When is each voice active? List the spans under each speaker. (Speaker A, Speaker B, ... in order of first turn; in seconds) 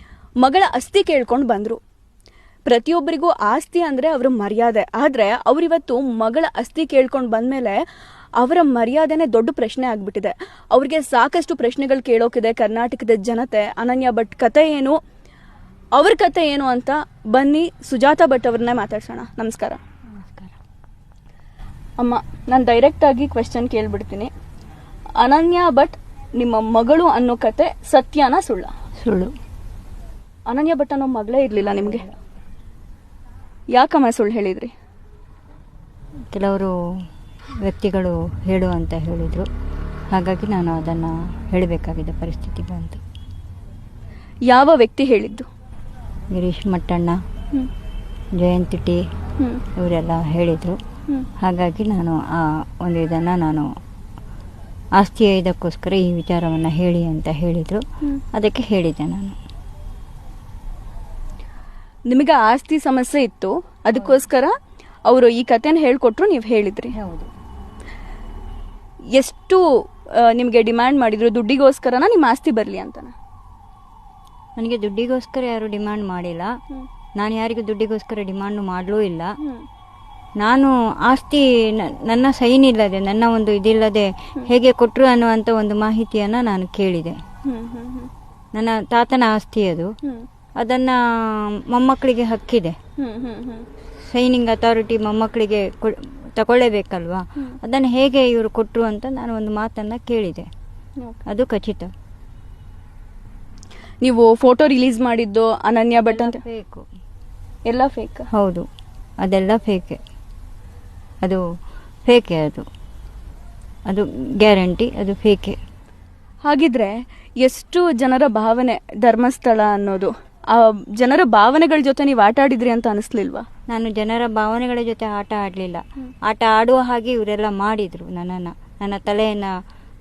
Speaker A: 0.4-1.8, 2.6-7.8, 8.4-15.0, 15.9-19.8, 22.0-24.3, 25.2-28.7, 30.5-32.0, 33.7-34.7, 44.5-45.5, 49.4-49.6, 62.1-64.5, 65.0-66.9, 69.1-73.1, 79.4-79.6, 87.4-88.1, 93.0-93.7, 104.0-106.4, 107.7-108.3, 116.4-123.5
Speaker B: 20.1-20.5, 29.0-29.3, 31.7-32.1, 36.3-36.7, 37.6-39.5, 40.1-43.0, 46.3-47.2, 48.4-49.1, 49.8-50.8, 51.4-53.7, 55.0-59.4, 63.9-64.2, 66.9-67.3, 74.6-76.5, 77.2-79.3, 80.4-87.2, 88.5-89.9, 90.6-92.8, 94.1-100.5, 101.2-101.9, 106.0-106.8, 108.3-108.7, 109.2-110.0, 112.0-112.7, 113.9-115.6, 123.7-129.5